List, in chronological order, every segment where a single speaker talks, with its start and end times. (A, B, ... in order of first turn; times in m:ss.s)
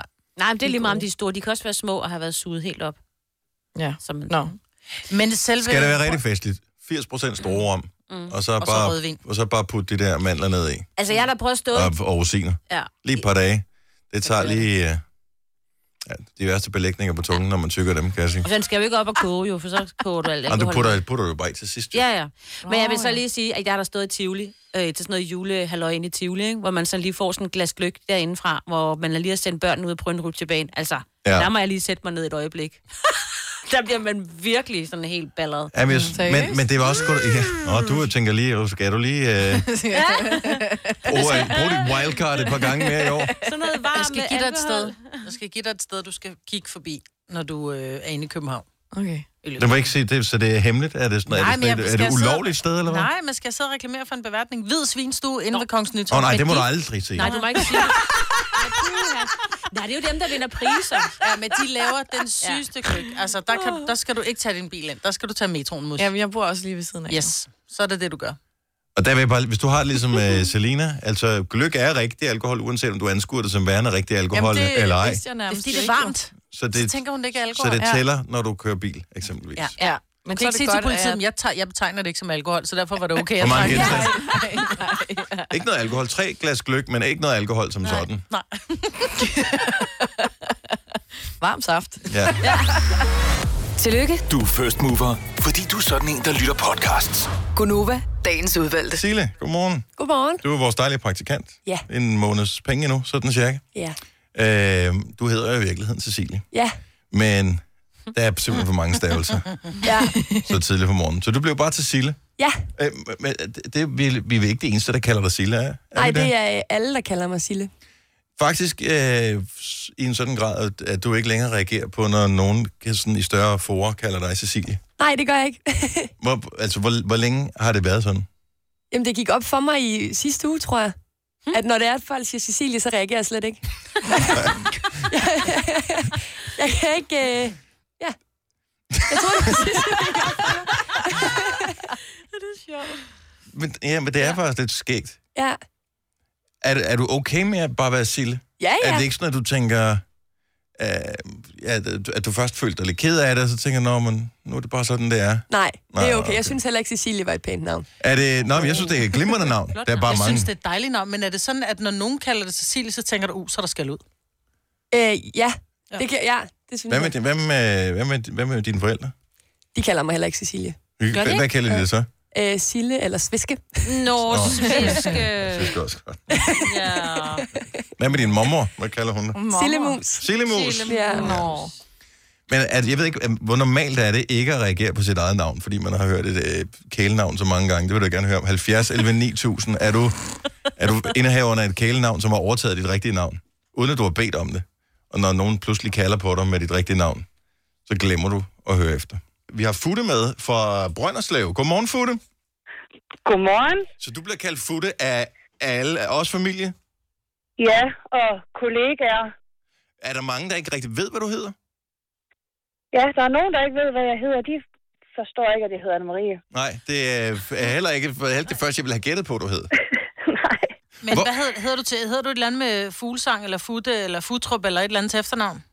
0:00.4-0:03.0 A
0:00.6-0:01.0 B
0:03.8-0:04.5 B
0:04.0-0:04.5 A
0:05.0-0:06.2 C
0:05.6-0:10.9 D
0:07.4-0:08.3 A
0:08.6-0:09.2 C
0:11.0-0:11.9 A
0:11.7-0:15.0 D
0:12.7-0:13.0 A
0:14.2-0:14.6 A
0:16.0-0:18.5 D
0:18.4-0:21.0 A
0:20.5-0:22.0 D
0:21.9-0:36.1 A
0:22.6-0:23.2 B
0:31.2-0:31.5 D
0:35.7-0:39.7 D
0:36.1-0:36.6 B
0:39.5-0:41.0 B
0:39.9-0:42.7 A
0:41.0-0:43.3 D
0:43.0-0:43.5 B
0:43.4-0:45.3 A
0:43.9-0:48.6 C
0:48.9-0:49.3 B
0:49.4-0:49.9 C
0:49.6-0:53.1 D
0:51.3-0:57.9 C
0:56.1-0:57.8 D
0:57.2-1:01.2 A
1:01.2-1:06.1 C
1:06.0-1:07.3 B
1:07.1-1:08.4 C
1:09.0-1:15.2 D
1:14.3-1:16.2 B
1:15.5-1:18.0 C
1:16.5-1:17.0 D
1:17.5-1:19.7 D
1:19.8-1:21.2 B
1:20.3-1:24.9 C
1:23.4-1:24.2 D
1:23.6-1:25.6 B
1:25.5-1:28.2 D
1:28.0-1:29.6 C
1:29.3-1:30.3 B
1:31.4-1:33.0 B
1:32.1-1:32.4 D
1:32.4-1:32.7 C
1:33.8-1:34.2 E
1:34.3-1:37.3 F
1:37.5-1:39.0 E
1:38.9-1:39.9 D
1:40.0-1:40.4 G
1:40.4-1:43.6 D
1:44.3-1:46.4 D
1:47.1-1:49.6 D
1:49.8-1:50.3 G
1:50.1-1:50.4 B
1:50.4-1:52.2 D
1:52.8-1:56.3 D
1:56.0-1:57.7 G
1:58.4-2:04.8 D
2:05.0-2:06.1 G
2:06.2-2:08.3 D
2:08.9-2:10.9 G
2:11.5-2:18.1 G
2:18.9-2:19.3 D
2:19.1-2:21.7 G
2:19.5-2:20.4 B
2:22.6-2:23.0 B
2:23.5-2:25.2 D
2:26.6-2:30.0 D
2:28.6-2:29.0 G
2:30.8-2:36.6 D
2:35.5-2:37.9 G
2:38.0-2:40.5 D
2:38.6-2:39.4 G
2:39.8-2:44.0 C
2:44.9-2:47.1 G
2:46.9-2:49.1 D
2:49.7-2:50.8 G
2:51.0-2:52.1 D
2:51.1-2:51.5 A
2:52.3-2:54.4 G
2:53.8-2:55.7 A
2:54.3-2:56.2 D
2:56.6-2:57.4 A
2:56.9-2:57.4 G
2:58.0-2:59.4 D
2:59.3-3:01.7 B
2:59.5-3:00.0 G
3:00.1-3:01.5 D
3:00.8-3:01.4 G
3:00.8-3:01.4 A
3:02.5-3:10.2 D
3:10.8-3:17.2 D
3:17.9-3:22.2 D
3:23.2-3:23.9 H
3:24.0-3:26.7 D
3:27.6-3:29.3 H
3:30.0-3:31.5 D
3:32.9-3:34.6 H
3:35.1-3:36.4 H
3:36.5-3:39.7 D
3:40.2-3:40.7 H
3:41.0-3:45.6 C